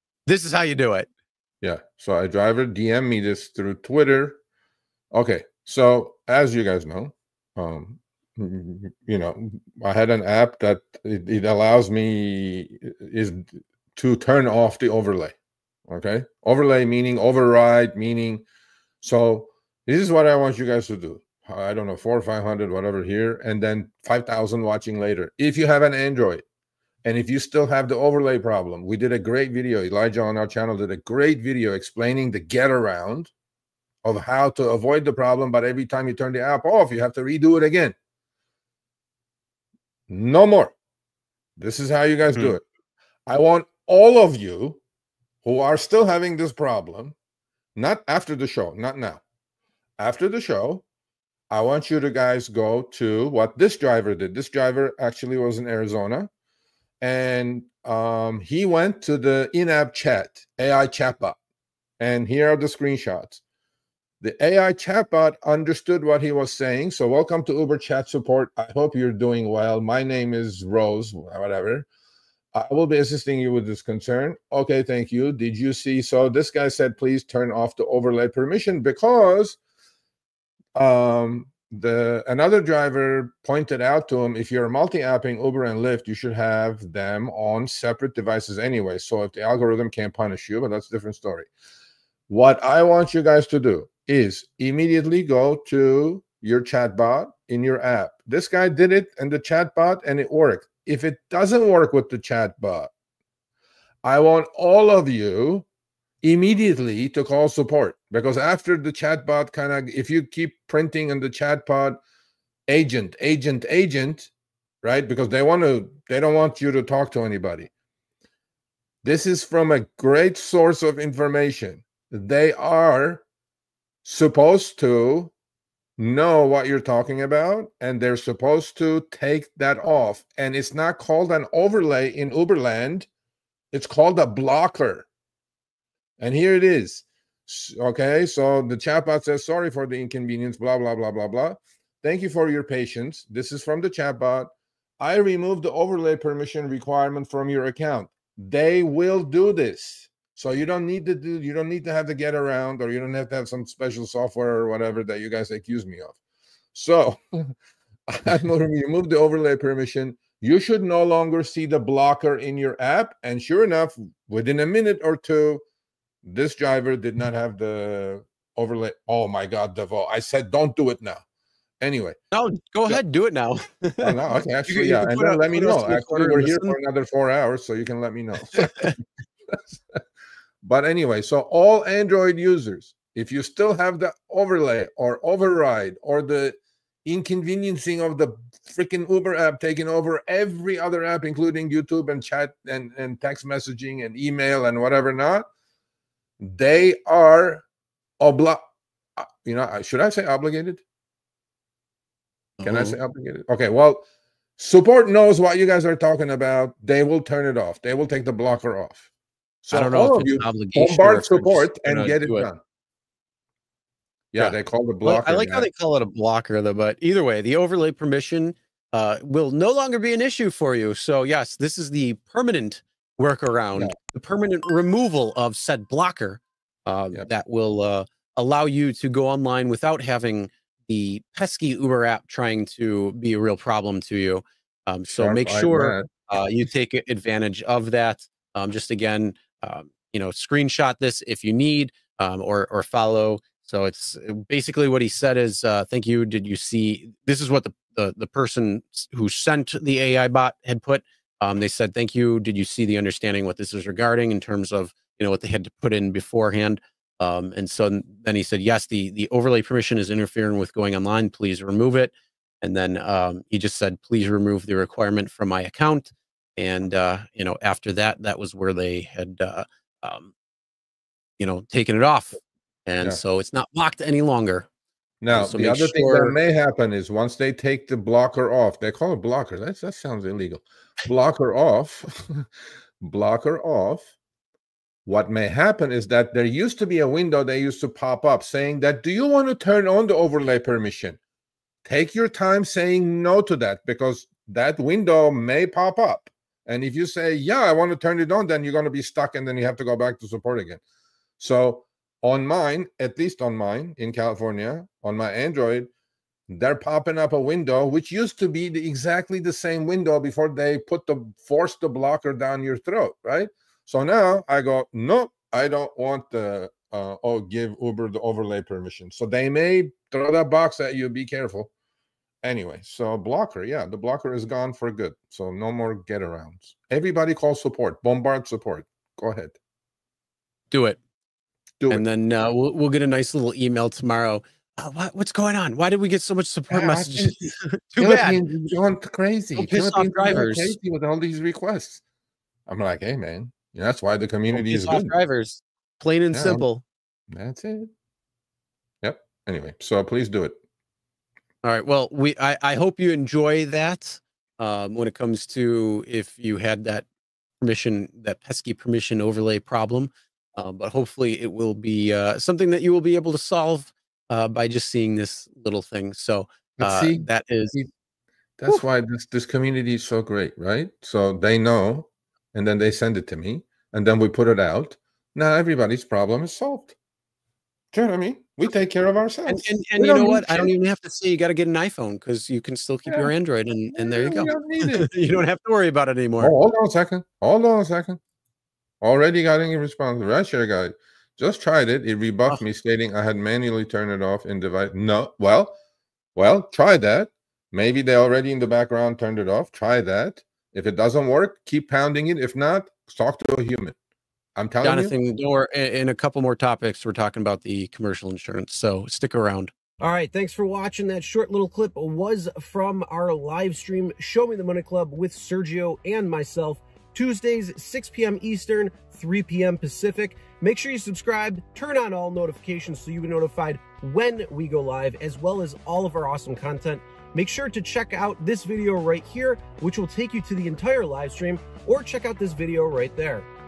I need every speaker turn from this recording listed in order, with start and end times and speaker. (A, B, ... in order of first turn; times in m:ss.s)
0:00.3-0:01.1 A
0:01.6-0:04.4 B
0:05.1-0:15.4 B
0:15.9-0:18.4 B
0:19.0-0:26.4 B
0:27.0-0:33.3 B
0:34.0-0:37.9 B
0:40.1-0:40.7 B
0:41.6-0:42.6 B
0:43.3-0:44.8 B
0:45.4-0:47.2 B
0:47.8-0:49.2 B
0:50.0-0:50.8 B
0:51.5-0:56.3 B
0:57.0-1:01.4 B
1:02.0-1:03.4 B
1:04.2-1:11.9 B
1:12.6-1:19.6 B
1:20.8-1:31.5 B
1:32.3-1:42.9 B
1:44.0-1:45.7 B
1:46.2-1:52.0 B
1:52.7-1:54.3 B
1:54.8-1:57.7 B
1:59.0-2:03.2 B
2:04.0-2:05.3 B
2:06.0-2:13.1 B
2:13.7-2:15.1 B
2:16.2-2:36.2 B
2:36.7-2:37.5 B
2:38.1-2:45.6 B
2:46.2-2:51.2 B
2:51.8-2:52.2 B
2:52.3-2:56.8 A
2:54.0-2:58.9 B
2:58.5-2:59.0 A
3:00.6-3:15.5 B
3:16.4-3:17.6 B
3:18.2-3:18.6 B
3:19.2-3:20.8 B
3:22.6-3:23.0 A
3:22.6-3:24.0 B
3:24.6-3:29.1 B
3:29.6-3:32.6 B
3:29.7-3:32.5 A
3:34.3-3:35.7 B
3:34.4-4:30.3 A
3:55.1-3:56.1 B
4:31.4-4:34.7 A
4:35.2-4:42.5 B
4:35.3-4:36.4 A
4:43.0-4:44.1 B
4:45.1-4:51.2 B
4:51.8-5:00.8 B
5:01.4-5:05.9 B
5:06.5-5:21.7 B
5:22.4-5:29.6 B
5:30.7-5:31.0 A
5:31.8-5:32.0 B
5:31.9-5:38.4 A
5:36.7-5:37.4 B
5:38.0-5:42.0 B
5:39.6-5:40.8 A
5:42.7-5:45.2 B
5:44.5-5:46.8 A
5:46.3-5:46.6 B
5:47.3-5:47.9 B
5:49.0-5:50.6 B
5:51.6-5:57.0 A
5:57.6-6:07.8 A
6:06.8-6:07.8 B
6:08.6-6:16.9 B
6:17.9-6:20.7 B
6:19.5-6:26.6 A
6:23.1-6:23.3 B
6:23.9-6:25.1 B
6:26.4-6:28.2 B
6:29.0-6:35.8 B
6:36.4-6:43.9 B
6:44.6-6:45.2 B
6:44.8-6:49.7 A
6:50.0-7:13.5 C